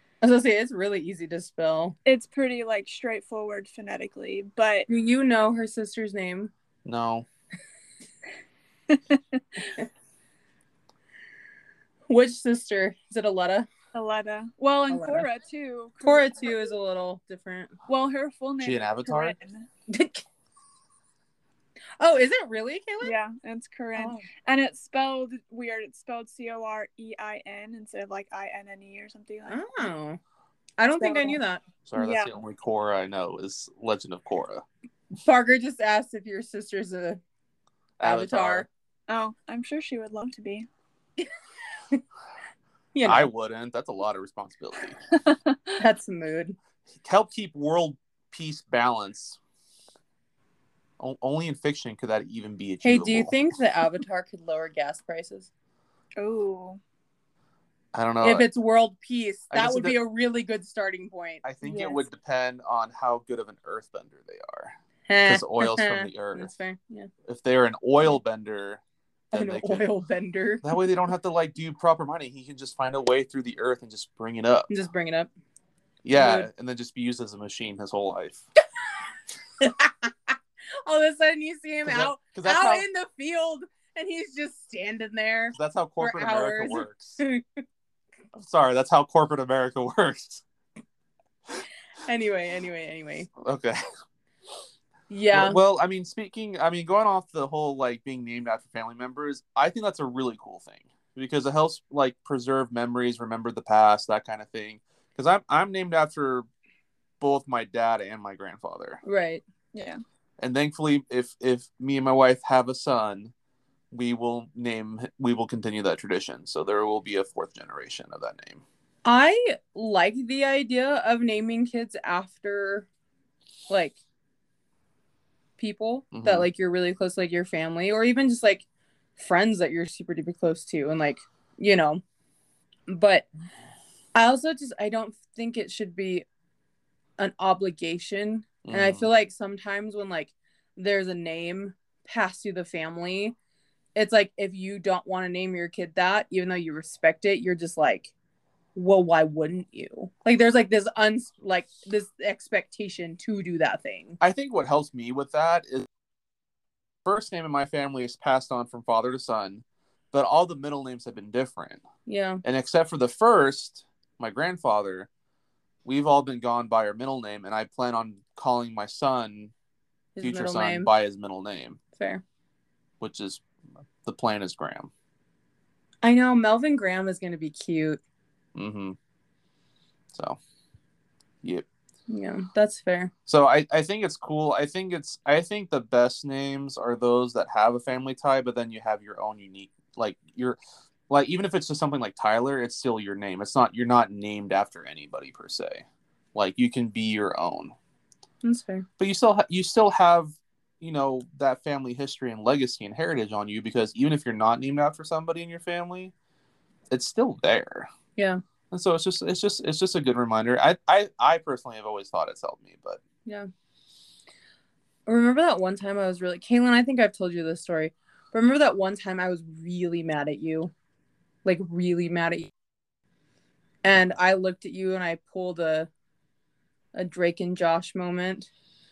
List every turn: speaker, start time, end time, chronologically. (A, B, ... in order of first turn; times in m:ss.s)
0:00.2-0:02.0 A
0:02.0-0:04.9 B
0:04.9-0:06.5 A
0:06.8-0:07.2 C
0:08.9-0:09.2 B
0:12.1-0:13.7 A
0:13.9-0:16.7 B
0:14.9-0:15.3 A
0:16.0-0:17.8 A
0:17.9-0:19.7 B
0:18.6-0:19.3 C
0:19.9-0:20.2 A
0:22.0-0:23.1 A
0:23.0-0:29.6 B
0:24.0-0:24.2 A
0:29.5-0:30.2 A
0:30.8-0:31.6 A
0:31.0-0:31.4 B
0:31.8-0:34.6 C
0:32.0-0:32.3 B
0:35.1-0:37.2 A
0:38.0-0:38.7 C
0:38.0-0:38.6 A
0:39.1-0:40.7 B
0:42.9-0:43.3 A
0:43.0-0:45.0 C
0:45.3-0:45.5 B
0:45.8-0:46.6 A
0:47.0-0:49.4 C
0:51.0-0:53.3 C
0:52.8-0:55.5 A
0:56.2-0:56.8 B
0:57.9-0:58.5 C
0:58.2-1:02.0 A
0:59.5-1:00.0 C
1:01.4-1:04.7 C
1:05.1-1:07.1 A
1:05.2-1:06.5 C
1:07.2-1:08.8 C
1:09.3-1:09.9 C
1:09.3-1:10.7 A
1:10.6-1:14.7 C
1:14.7-1:15.3 A
1:16.0-1:18.4 C
1:16.1-1:16.5 A
1:19.6-1:27.6 A
1:21.8-1:22.8 C
1:25.5-1:27.2 C
1:28.3-1:30.4 C
1:32.0-1:33.3 A
1:33.4-1:33.8 C
1:35.1-1:35.6 A
1:35.3-1:46.4 C
1:47.2-1:49.0 C
1:49.0-1:49.4 A
1:49.7-1:50.0 B
1:50.4-1:53.3 C
1:53.9-1:58.6 C
1:59.0-2:02.9 A
2:03.7-2:04.0 A
2:05.6-2:08.6 A
2:06.1-2:06.5 C
2:09.2-2:12.0 A
2:12.9-2:13.3 A
2:14.1-2:16.2 A
2:17.2-2:23.3 A
2:18.6-2:19.1 C
2:23.9-2:28.1 A
2:28.7-2:34.2 A
2:34.2-2:35.9 C
2:37.0-2:41.8 C
2:42.0-2:42.4 A
2:42.4-2:45.1 C
2:45.8-2:49.5 C
2:50.2-2:50.9 A
2:50.2-2:51.8 C
2:52.0-2:52.2 A
2:53.0-2:53.4 C
2:54.0-2:54.9 C
2:56.0-2:58.0 A
2:58.5-2:59.0 C
3:00.1-3:00.4 C
3:02.1-3:03.1 A
3:03.3-3:10.6 C
3:11.1-3:17.7 C
3:18.4-3:18.9 A
3:19.0-3:26.1 C
3:26.9-3:27.9 C
3:28.7-3:33.0 C
3:33.2-3:33.5 A
3:35.0-3:40.7 A
3:41.4-3:42.5 A
3:43.8-3:45.9 A
3:46.9-3:48.5 A